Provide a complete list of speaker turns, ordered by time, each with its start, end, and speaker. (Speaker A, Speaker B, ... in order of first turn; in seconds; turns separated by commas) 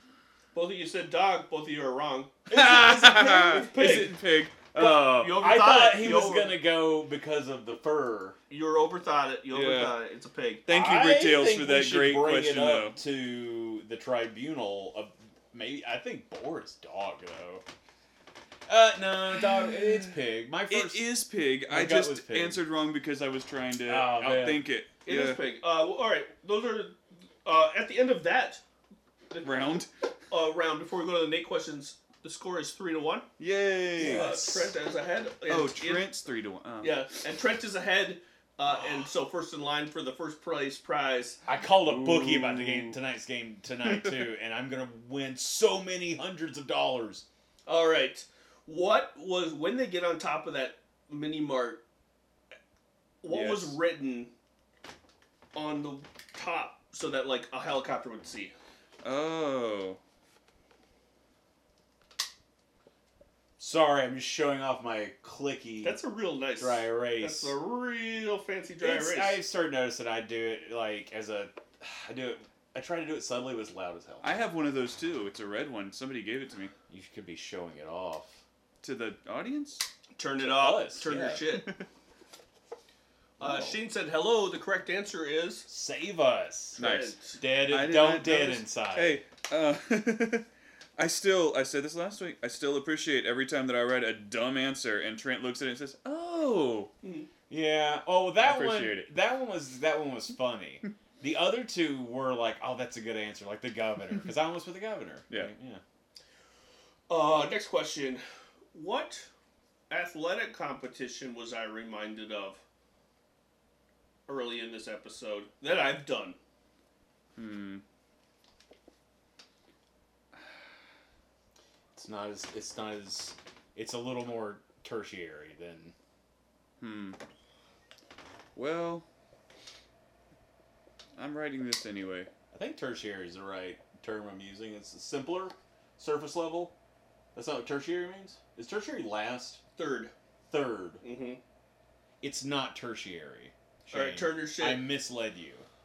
Speaker A: 0.5-2.4, Speaker B: 2.5-3.8, Speaker C: 2.5-5.4, Speaker A: 3.3-6.6, Speaker B: 5.2-8.4, Speaker A: 8.5-10.6, Speaker C: 9.5-9.9, Speaker C: 10.7-13.0, Speaker B: 10.7-17.6, Speaker B: 18.7-21.1, Speaker C: 20.7-25.4, Speaker B: 21.7-22.6, Speaker B: 23.9-24.6, Speaker A: 25.0-28.6, Speaker A: 29.3-29.7, Speaker C: 29.4-29.9, Speaker A: 30.3-33.3, Speaker C: 33.4-34.3, Speaker B: 34.0-34.7, Speaker A: 34.0-36.1, Speaker C: 35.5-37.0, Speaker A: 36.8-41.4, Speaker B: 41.5-47.2, Speaker C: 41.7-43.0, Speaker C: 43.8-44.3, Speaker A: 47.6-51.8, Speaker A: 53.2-54.3, Speaker C: 53.3-53.8, Speaker A: 55.5-58.5, Speaker C: 59.0-60.0, Speaker B: 63.6-66.0, Speaker A: 65.8-69.4, Speaker B: 66.6-67.5, Speaker B: 68.8-74.3, Speaker C: 74.2-76.7, Speaker B: 76.9-78.4, Speaker C: 78.8-79.8, Speaker A: 80.2-81.7, Speaker B: 80.4-81.5, Speaker B: 83.4-83.8, Speaker A: 83.4-85.7, Speaker B: 85.7-86.8, Speaker A: 86.8-87.4, Speaker C: 86.8-90.5, Speaker B: 87.4-89.2, Speaker C: 91.0-96.9, Speaker A: 97.0-97.3, Speaker B: 97.5-105.8, Speaker C: 98.4-99.1, Speaker A: 107.1-108.2, Speaker A: 108.7-109.3, Speaker A: 109.9-112.6, Speaker A: 114.3-116.4, Speaker C: 117.3-117.8, Speaker B: 121.9-125.9, Speaker C: 126.8-127.2, Speaker C: 128.5-129.1, Speaker C: 131.2-132.3, Speaker B: 132.5-136.7, Speaker B: 137.3-139.6, Speaker A: 139.8-140.1, Speaker B: 140.5-141.0, Speaker A: 141.0-141.4, Speaker B: 142.2-145.7, Speaker A: 143.9-144.9